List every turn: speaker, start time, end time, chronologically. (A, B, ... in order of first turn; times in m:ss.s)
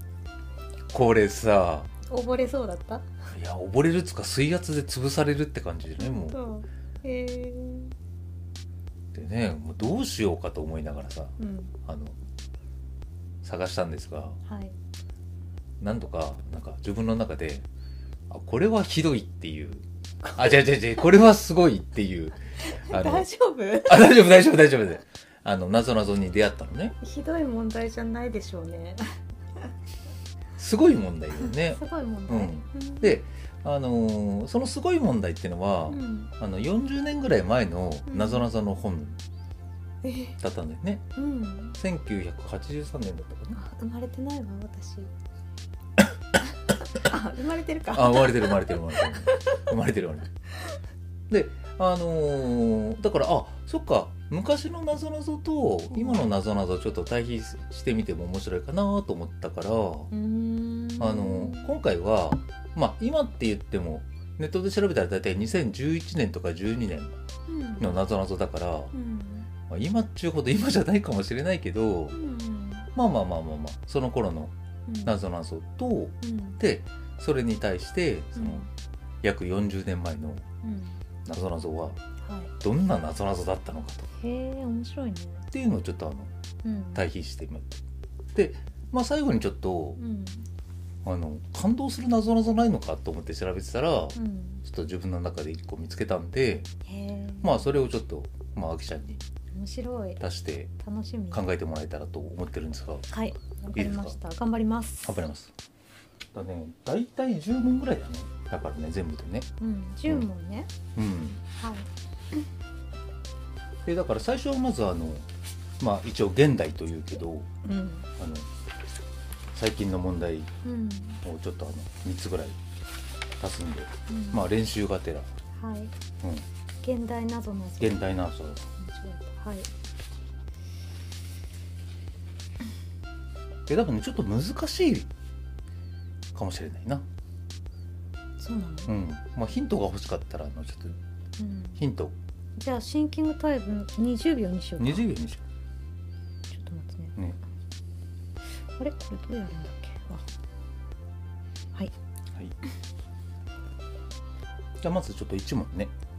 0:00.9-0:01.9 A
0:02.1-0:03.1 B
0:03.3-0:06.4 A
0:06.0-0:07.9 B
0:09.1-0:12.2 A
0:11.4-0:11.8 B
0:13.4-0:14.4 A
0:14.5-0:14.7 B
0:15.8-0:17.7 A
0:18.3-0:19.8 A
0:20.2-0:20.6 B
0:20.4-0:22.4 A
0:22.6-0:24.2 B
0:22.9-0:23.3 A
0:23.9-0:27.0 A
0:27.0-0:29.0 B
0:30.6-0:39.2 A
0:31.4-0:33.2 B
0:35.9-0:36.3 B
0:38.1-0:38.5 B
0:40.0-0:40.4 B
0:40.4-0:41.0 A
0:41.2-0:41.8 B
0:41.8-0:43.6 A
0:43.5-0:45.1 B
0:46.9-0:49.7 B
0:47.9-0:50.3 A
0:51.3-1:00.1 A
1:00.1-1:01.8 B
1:01.0-1:07.2 A
1:07.5-1:08.0 B
1:07.8-1:08.9 A
1:08.9-1:09.5 B
1:09.7-1:12.2 A
1:12.1-1:12.9 B
1:13.0-1:14.5 A
1:14.9-1:15.2 B
1:15.0-1:18.7 A
1:16.2-1:16.6 B
1:18.4-1:18.7 B
1:19.2-1:20.4 A
1:20.6-1:21.0 B
1:21.2-1:22.0 A
1:22.2-1:22.5 B
1:22.6-1:24.1 A
1:24.2-1:25.4 B
1:25.5-1:26.3 A
1:26.6-1:27.0 B
1:27.0-1:27.8 A
1:28.3-1:30.0 A
1:30.0-1:30.4 B
1:31.0-1:36.7 A
1:34.2-1:34.6 B
1:36.9-1:37.6 B
1:37.4-1:39.2 A
1:39.6-1:40.2 B
1:40.2-1:40.7 A
1:40.8-1:41.5 B
1:41.3-1:43.0 A
1:43.1-1:45.2 B
1:43.7-1:44.2 A
1:45.0-1:45.5 A
1:46.3-1:49.5 A
1:49.6-1:50.7 B
1:51.0-1:51.4 A
1:51.6-1:51.9 B
1:53.8-1:55.3 A
1:55.8-1:57.5 A
1:57.6-1:58.1 B
1:58.2-1:58.5 A
1:59.5-2:00.5 A
2:00.6-2:01.2 B
2:01.2-2:02.6 A
2:03.4-2:05.3 A
2:04.1-2:04.5 B
2:05.6-2:05.9 B
2:06.8-2:08.1 B
2:07.8-2:08.6 A
2:08.8-2:09.7 B
2:13.7-2:15.1 A
2:16.3-2:17.0 A
2:18.4-2:19.0 B
2:18.9-2:21.0 A
2:21.4-2:21.8 B
2:21.8-2:22.2 A
2:22.6-2:25.1 B
2:24.8-2:25.4 A
2:26.5-2:27.2 B
2:28.8-2:30.2 B
2:34.8-2:35.9 A